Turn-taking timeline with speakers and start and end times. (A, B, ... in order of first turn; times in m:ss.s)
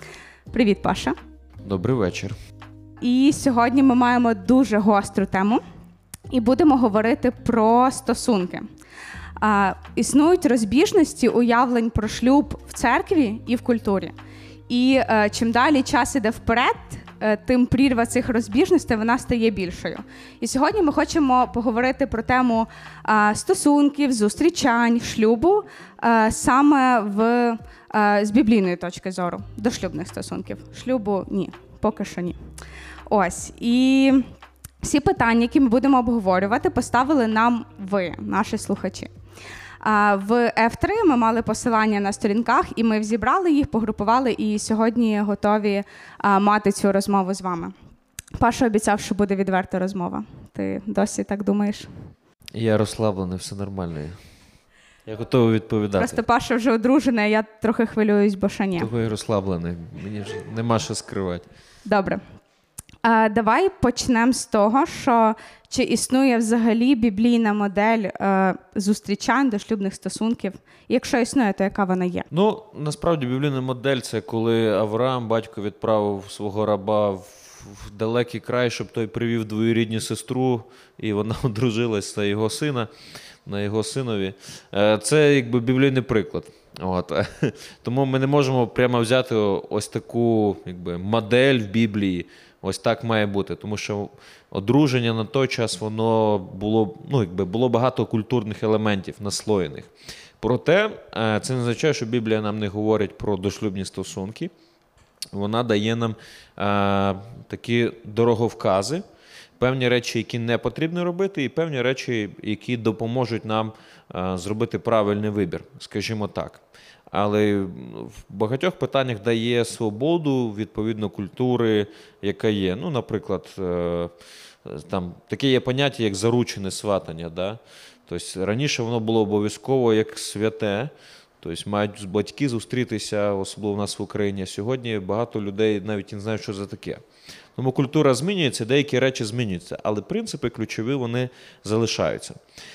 0:00.5-0:01.2 A
0:01.6-0:02.3 B
0:03.0-0:05.6 A
0:06.3-0:08.7 A
0:09.4-0:14.1 A
0:14.7-0:32.4 A
0:33.1-0:34.2 A
0:34.8-0:39.1 A
0:39.8-0:47.7 A
0:48.3-0:51.9 A
0:52.5-0:54.2 B
0:55.0-0:56.2 B
0:56.0-0:58.9 A
0:58.8-1:01.5 B
1:01.8-1:02.2 A
1:03.0-1:12.3 A
1:12.3-1:22.9 B
1:23.4-1:44.5 B
1:45.3-1:49.0 B
1:49.6-2:17.0 B
2:17.6-2:22.4 B